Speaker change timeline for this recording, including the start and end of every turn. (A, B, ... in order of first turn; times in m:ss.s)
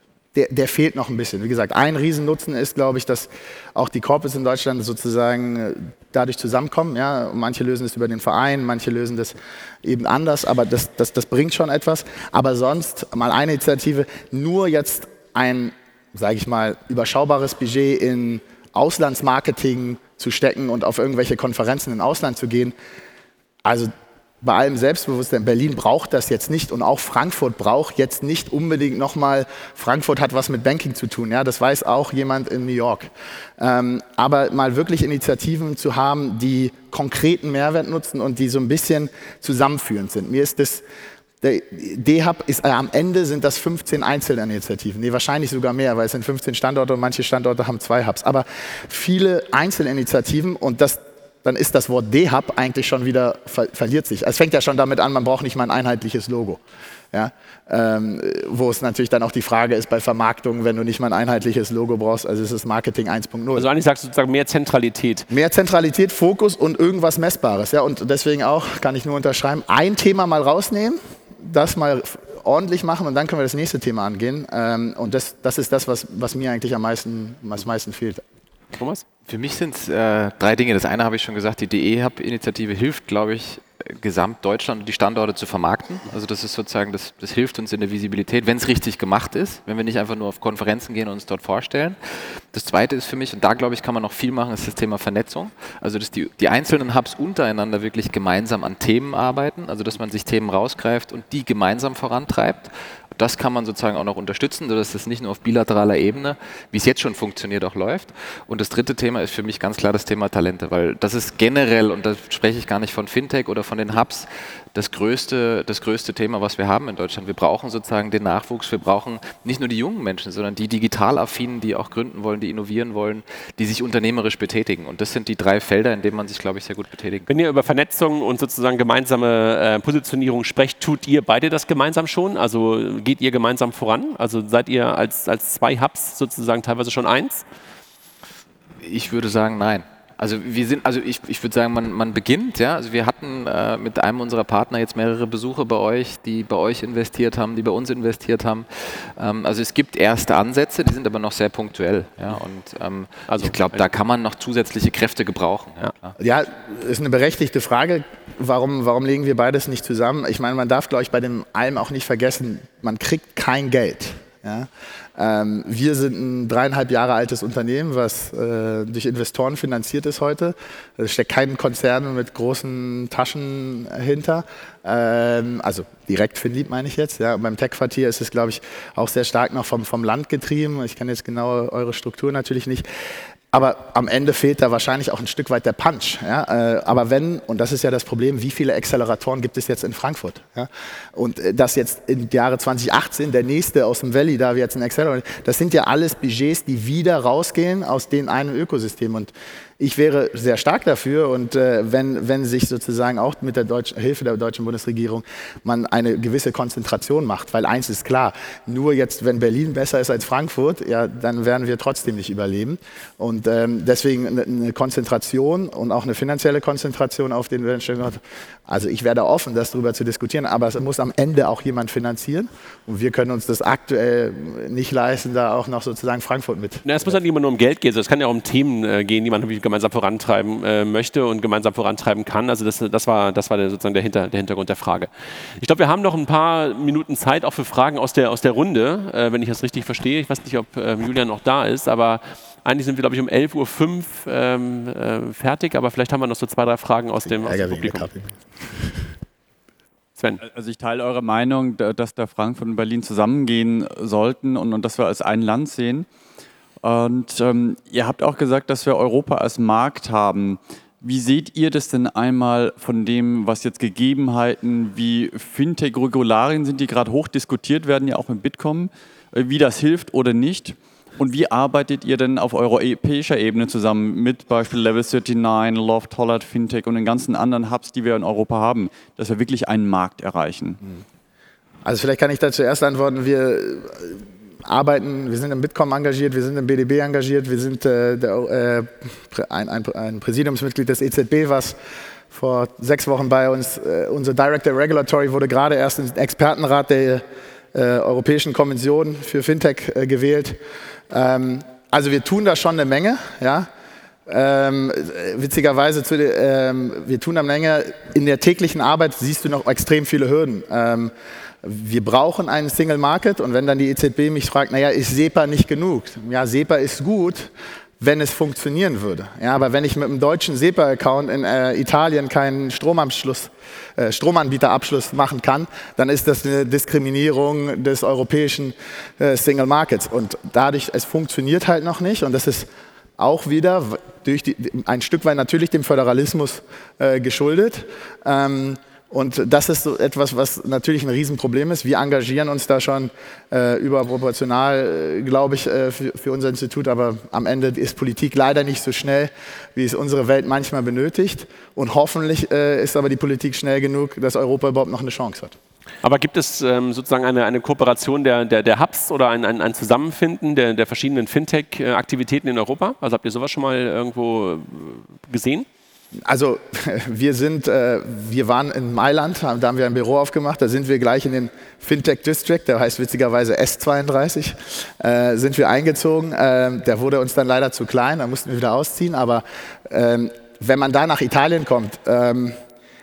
0:00.3-0:22.7 A
0:23.6-0:40.8 A
0:41.4-0:56.6 A
0:57.1-1:03.7 A
1:03.5-1:05.3 B
1:05.3-1:18.2 A
1:18.8-1:19.0 B
1:19.3-1:32.0 C
1:32.5-2:07.3 C
2:07.3-2:17.4 B
2:18.8-2:36.1 C
2:33.3-2:33.8 B
2:36.2-3:02.8 A
3:03.5-3:47.2 A
3:46.8-4:08.0 B
4:07.2-4:09.0 A
4:10.4-4:16.1 D
4:16.8-4:40.8 D
4:41.8-4:51.8 A
4:52.3-5:00.6 A
5:01.1-5:03.7 A
5:04.3-5:32.7 A
5:33.2-5:55.5 A
5:56.0-6:05.7 B
6:06.2-6:22.6 A